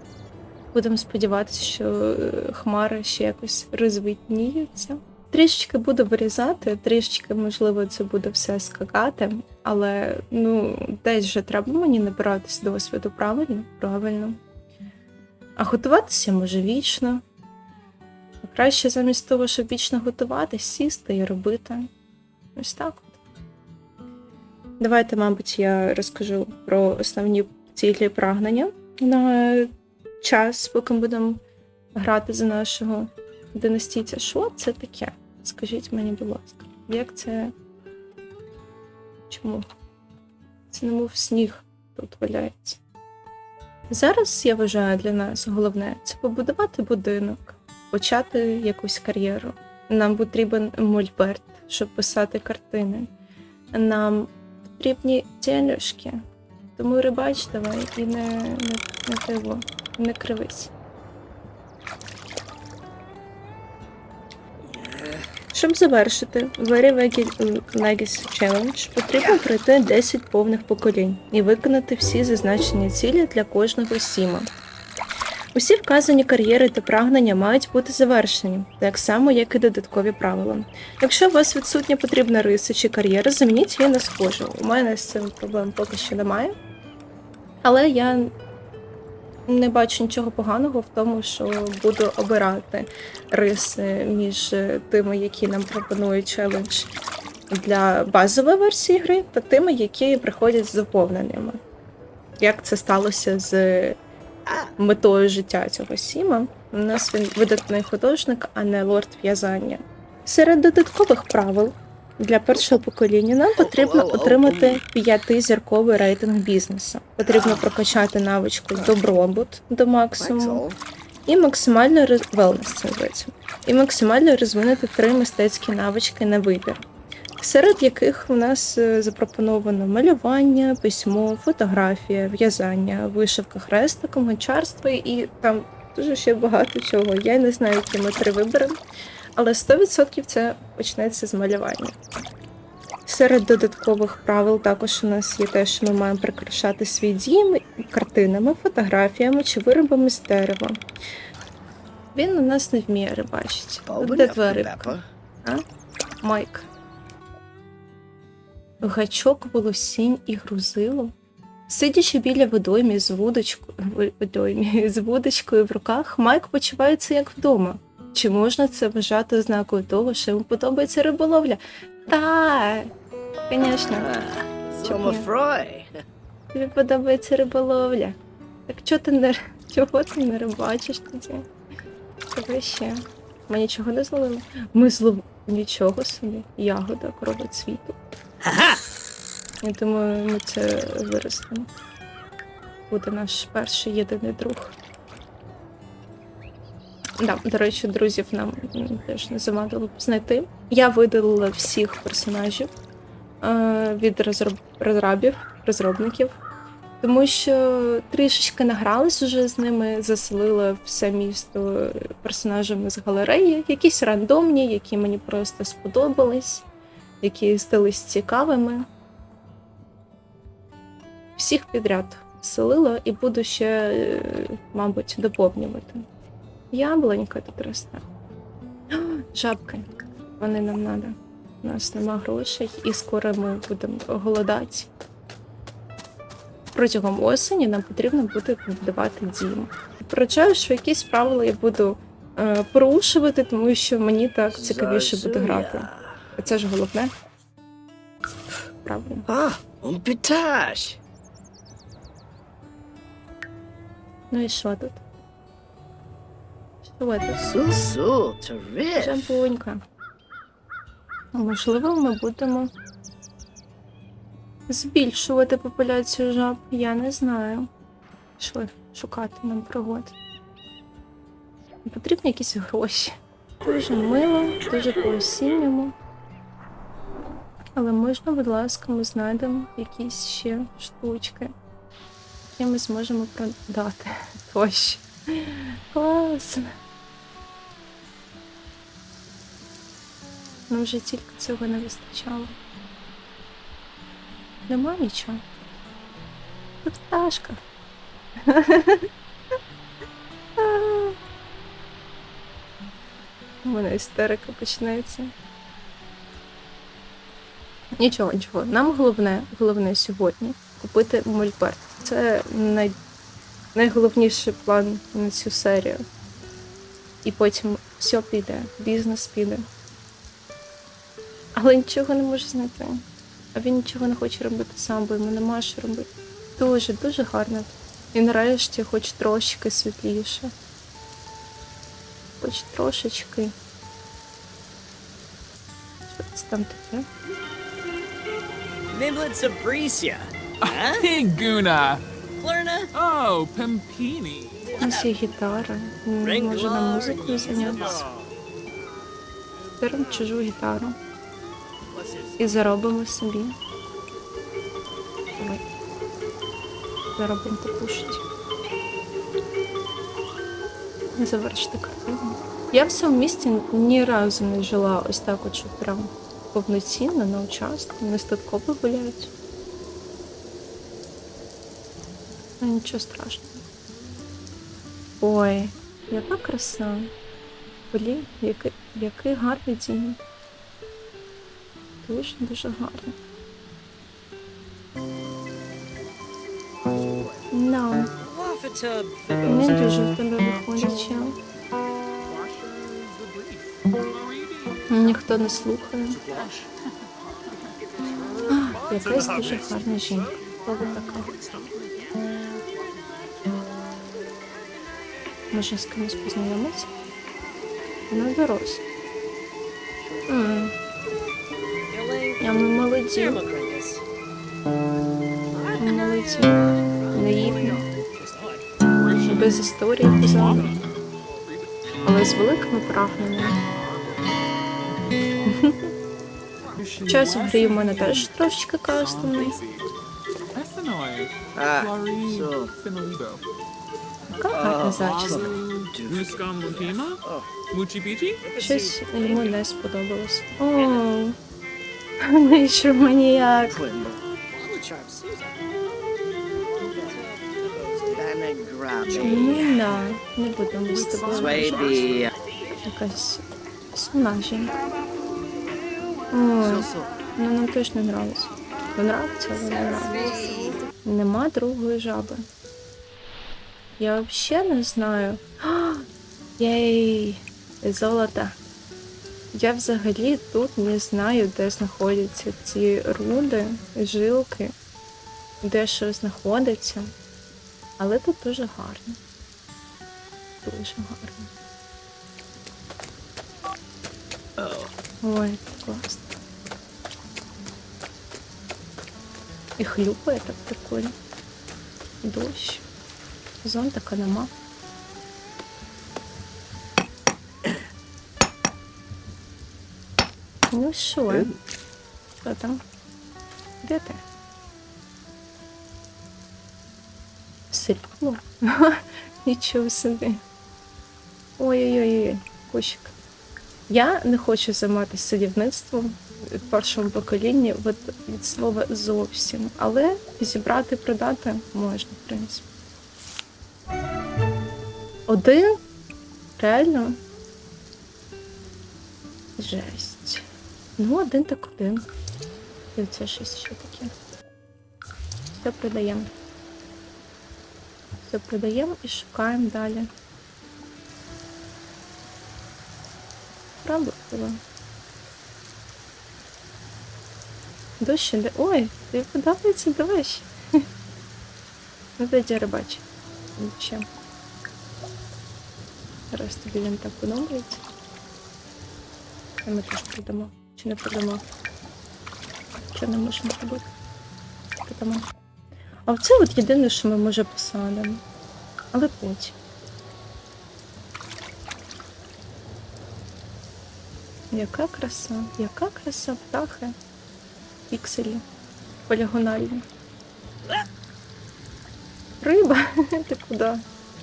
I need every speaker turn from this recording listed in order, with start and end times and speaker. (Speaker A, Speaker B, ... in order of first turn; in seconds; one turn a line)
Speaker A: 0.7-14.4
Speaker A: 15.6-17.2
Speaker A: 18.4-21.9
Speaker A: 22.6-23.2
Speaker A: 24.8-31.4
Speaker A: 31.9-37.5
Speaker A: 39.3-39.7
Speaker A: 40.7-42.8
Speaker A: 43.9-53.1
Speaker A: 53.7-56.2
Speaker A: 56.8-60.7
Speaker B: 64.6-65.3
Speaker A: 65.5-74.5
Speaker B: 69.1-69.5
Speaker A: 75.5-86.6
Speaker A: 87.6-88.3
Speaker A: 89.5-96.9
Speaker A: 97.5-101.6
Speaker A: 102.4-104.0
Speaker B: 104.5-104.7
Speaker A: 104.8-120.6
Speaker B: 113.5-114.8
Speaker B: 117.2-117.7
Speaker B: 120.2-120.8
Speaker A: 121.2-126.8
Speaker A: 127.4-138.8
Speaker A: 139.4-142.0
Speaker A: 143.1-150.8
Speaker A: 152.2-155.6
Speaker B: 153.9-155.1
Speaker A: 156.2-156.7
Speaker A: 158.8-161.1
Speaker A: 161.7-172.9
Speaker A: 173.5-174.1
Speaker B: 173.9-176.0
Speaker A: 174.8-175.2
Speaker A: 176.5-181.5
Speaker A: 182.3-188.0
Speaker B: 188.4-188.8
Speaker A: 189.6-191.7
Speaker A: 192.9-194.8
Speaker A: 197.2-202.7
Speaker A: 203.4-206.4
Speaker A: 207.0-216.7
Speaker A: 217.2-218.9
Speaker A: 221.4-226.1
Speaker A: 226.7-228.0
Speaker A: 228.9-234.9
Speaker A: 236.7-247.1
Speaker B: 244.5-246.3
Speaker A: 248.8-249.3
Speaker B: 249.3-251.0
Speaker A: 254.3-255.0
Speaker A: 256.8-257.4
Speaker B: 257.4-259.4
Speaker A: 258.9-259.8
Speaker A: 261.3-262.7
Speaker A: 264.7-267.7
Speaker A: 268.4-270.1
Speaker A: 271.9-275.9
Speaker A: 277.8-281.5
Speaker A: 282.5-286.7
Speaker A: 290.7-292.6
Speaker A: 294.7-295.4
Speaker A: 296.8-297.6
Speaker A: 298.4-299.1
Speaker A: 300.6-301.2
Speaker A: 303.6-305.3
Speaker A: 308.0-312.9
Speaker A: 313.8-316.1
Speaker A: 317.2-319.7
Speaker A: 321.5-330.5
Speaker A: 332.4-333.6
Speaker A: 336.1-337.1
Speaker B: 338.9-341.1
Speaker C: 340.6-342.0
Speaker B: 342.4-342.9
Speaker C: 342.9-344.6
Speaker B: 344.6-345.2
Speaker A: 344.8-348.0
Speaker B: 346.2-348.1
Speaker C: 347.2-348.0
Speaker A: 349.8-351.0
Speaker B: 351.9-352.6
Speaker A: 352.4-353.6
Speaker A: 355.4-355.6
Speaker A: 357.1-358.2
Speaker A: 361.2-369.3
Speaker A: 372.6-373.6
Speaker A: 375.2-377.1
Speaker A: 377.9-380.2
Speaker A: 382.0-383.2
Speaker A: 387.5-388.1
Speaker B: 388.2-390.0
Speaker A: 389.5-391.4
Speaker C: 392.2-395.2
Speaker A: 394.9-396.2
Speaker C: 396.3-396.9
Speaker C: 397.5-402.3
Speaker A: 398.5-401.3
Speaker A: 405.5-406.9
Speaker A: 408.1-408.8
Speaker A: 410.3-410.7
Speaker B: 411.9-414.1
Speaker A: 412.4-413.4
Speaker B: 415.5-418.7
Speaker A: 415.8-417.9
Speaker C: 418.9-421.7
Speaker A: 419.3-420.8
Speaker A: 422.0-423.6
Speaker C: 423.1-425.7
Speaker A: 425.5-425.9
Speaker C: 426.7-429.9
Speaker A: 427.1-429.6
Speaker C: 430.5-433.4
Speaker B: 431.6-432.7
Speaker C: 434.3-438.4
Speaker A: 434.4-435.6
Speaker B: 434.5-437.5
Speaker B: 438.4-439.6
Speaker A: 438.6-441.4
Speaker B: 440.8-441.0
Speaker A: 442.2-443.8
Speaker B: 443.7-445.6
Speaker B: 446.8-449.8
Speaker C: 449.1-449.8
Speaker A: 449.2-452.0
Speaker C: 450.9-452.3
Speaker B: 451.3-452.3
Speaker A: 452.8-454.7
Speaker A: 456.3-462.4
Speaker B: 456.6-457.1
Speaker B: 459.6-460.8
Speaker A: 464.0-466.1
Speaker A: 466.6-468.6
Speaker A: 469.5-474.7
Speaker A: 475.6-477.1
Speaker A: 478.0-479.2
Speaker A: 480.6-481.5
Speaker B: 484.6-484.9
Speaker A: 485.2-486.4
Speaker A: 489.8-491.1
Speaker A: 492.2-492.8
Speaker A: 493.6-494.5
Speaker A: 500.7-501.5
Speaker A: 502.4-502.8
Speaker A: 503.8-504.2
Speaker A: 507.7-510.4
Speaker A: 511.6-513.1
Speaker A: 513.9-522.6
Speaker A: 525.3-525.8
Speaker A: 526.6-527.2
Speaker A: 529.6-530.5
Speaker A: 531.0-532.0
Speaker A: 533.0-534.1
Speaker A: 535.5-536.3
Speaker A: 538.3-540.1
Speaker A: 543.8-544.6
Speaker A: 548.0-550.8
Speaker A: 552.2-553.0
Speaker A: 553.6-554.1
Speaker A: 556.3-557.8
Speaker A: 559.6-561.4
Speaker A: 562.9-563.9
Speaker A: 564.9-565.3
Speaker A: 566.1-568.2
Speaker A: 568.9-569.6
Speaker A: 574.5-577.0
Speaker A: 577.9-578.4
Speaker A: 579.1-579.9
Speaker A: 582.4-583.8